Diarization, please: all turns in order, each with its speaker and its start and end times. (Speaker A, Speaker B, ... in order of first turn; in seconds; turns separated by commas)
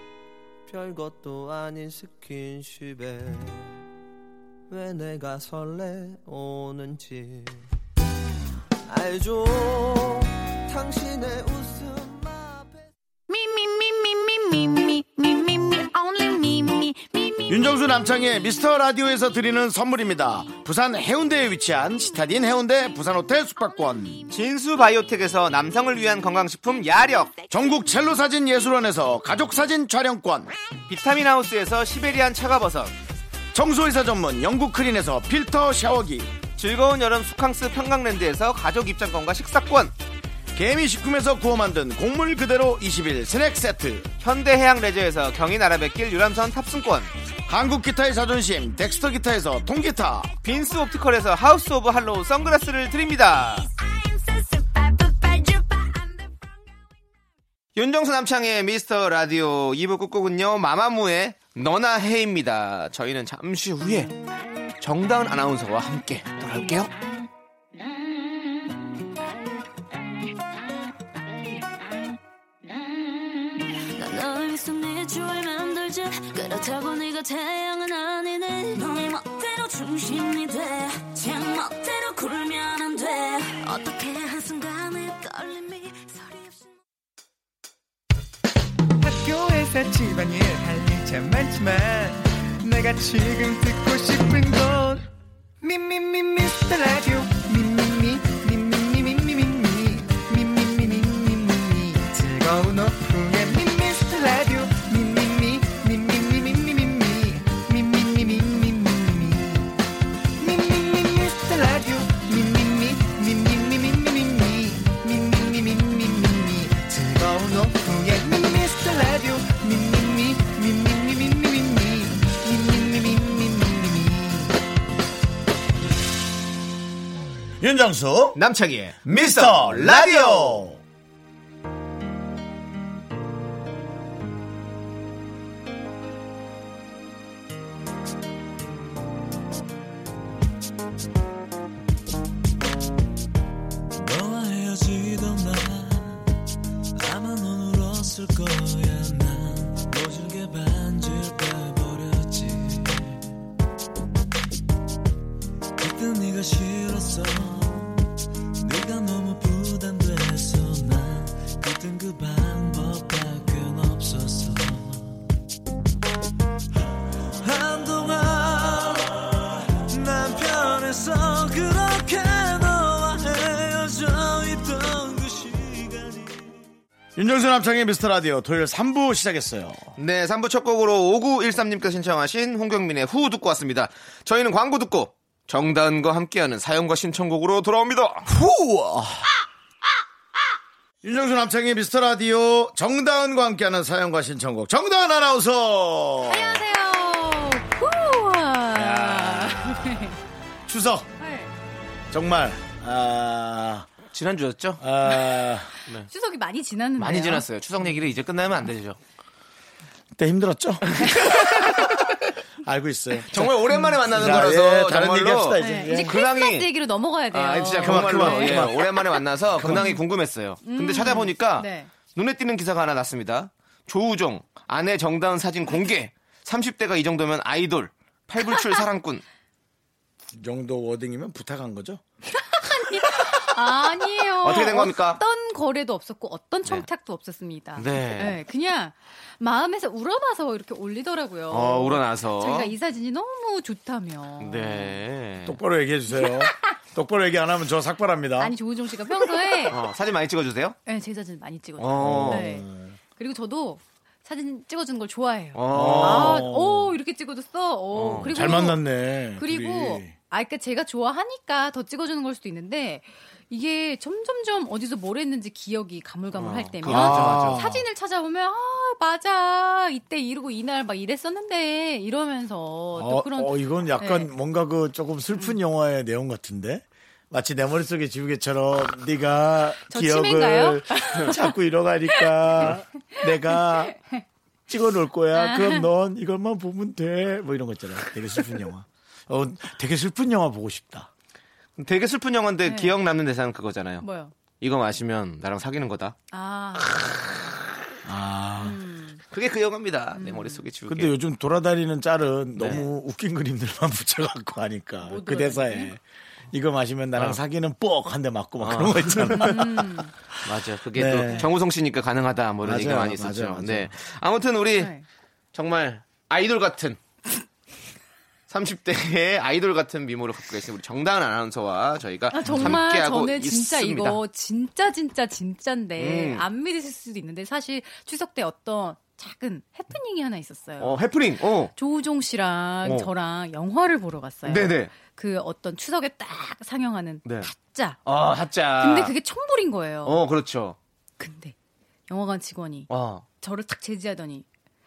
Speaker A: 0.7-3.8, Speaker A: 4.7-7.6, Speaker A: 8.9-12.9, Speaker B: 17.5-24.2, Speaker C: 24.3-27.4, Speaker B: 27.5-30.5, Speaker C: 30.9-32.9, Speaker B: 33.5-36.3, Speaker C: 36.5-39.9, Speaker B: 40.5-44.1, Speaker C: 44.2-47.1, Speaker B: 47.5-50.3, Speaker C: 50.4-53.7, Speaker C: 57.7-64.1, Speaker C: 64.8-66.9, Speaker D: 72.7-86.7, Speaker E: 89.0-95.1, Speaker E: 95.6-109.7, Speaker E: 110.4-124.5, Speaker B: 127.6-128.4, Speaker C: 128.3-130.7, Speaker B: 129.0-130.8, Speaker F: 144.0-146.3, Speaker F: 147.0-153.2, Speaker F: 155.8-158.0, Speaker F: 158.6-165.2, Speaker F: 167.4-176.6, Speaker B: 177.2-179.9, Speaker C: 180.0-188.3, Speaker B: 188.3-189.4, Speaker B: 191.0-196.6, Speaker G: 196.2-200.2, Speaker B: 198.8-200.0, Speaker B: 200.7-201.1, Speaker G: 201.2-201.5, Speaker B: 202.1-203.9, Speaker C: 204.1-204.8, Speaker B: 204.8-205.7, Speaker G: 206.1-207.4, Speaker C: 207.0-209.0, Speaker B: 210.1-216.2, Speaker C: 210.9-212.0, Speaker C: 213.3-216.7, Speaker G: 215.6-219.0, Speaker C: 217.3-229.2, Speaker B: 217.8-218.8, Speaker B: 219.5-220.0, Speaker G: 220.6-221.9, Speaker B: 230.3-232.0, Speaker G: 232.5-244.9, Speaker C: 234.4-235.2, Speaker C: 237.8-238.4, Speaker C: 241.5-242.7, Speaker C: 244.4-245.6, Speaker B: 245.4-248.5, Speaker G: 248.4-249.8, Speaker C: 249.7-250.8, Speaker G: 250.8-258.8, Speaker C: 251.8-252.5, Speaker B: 251.9-252.9, Speaker C: 255.5-256.5, Speaker B: 255.7-256.9, Speaker C: 257.9-258.6, Speaker B: 258.2-260.1, Speaker G: 259.4-274.3, Speaker C: 266.3-267.7, Speaker B: 266.8-267.8, Speaker B: 272.9-284.0, Speaker G: 279.9-281.5, Speaker G: 282.1-284.2, Speaker B: 284.7-291.1, Speaker G: 285.3-285.9, Speaker C: 291.8-294.1, Speaker G: 292.6-292.9, Speaker G: 294.0-294.3, Speaker C: 294.6-296.2, Speaker G: 296.3-297.0, Speaker C: 296.8-297.7, Speaker B: 298.0-298.8, Speaker G: 298.6-299.2, Speaker C: 299.3-301.1, Speaker G: 300.2-300.6, Speaker B: 300.9-306.0, Speaker C: 302.6-302.9, Speaker G: 305.0-305.9, Speaker B: 306.5-310.1, Speaker C: 308.6-309.7, Speaker G: 309.4-310.1, Speaker C: 310.4-314.9, Speaker B: 310.9-311.5, Speaker B: 312.6-313.9, Speaker G: 314.8-315.0, Speaker C: 315.5-317.0, Speaker C: 318.5-324.2, Speaker G: 322.3-331.0, Speaker B: 322.4-322.8, Speaker C: 326.0-326.4, Speaker C: 330.8-331.7, Speaker G: 331.7-338.0, Speaker C: 334.4-334.9, Speaker C: 337.2-337.5, Speaker C: 338.0-339.1, Speaker G: 338.8-340.2, Speaker C: 340.0-340.8, Speaker G: 341.2-341.5, Speaker G: 342.1-342.9, Speaker C: 342.9-343.2, Speaker G: 343.4-344.4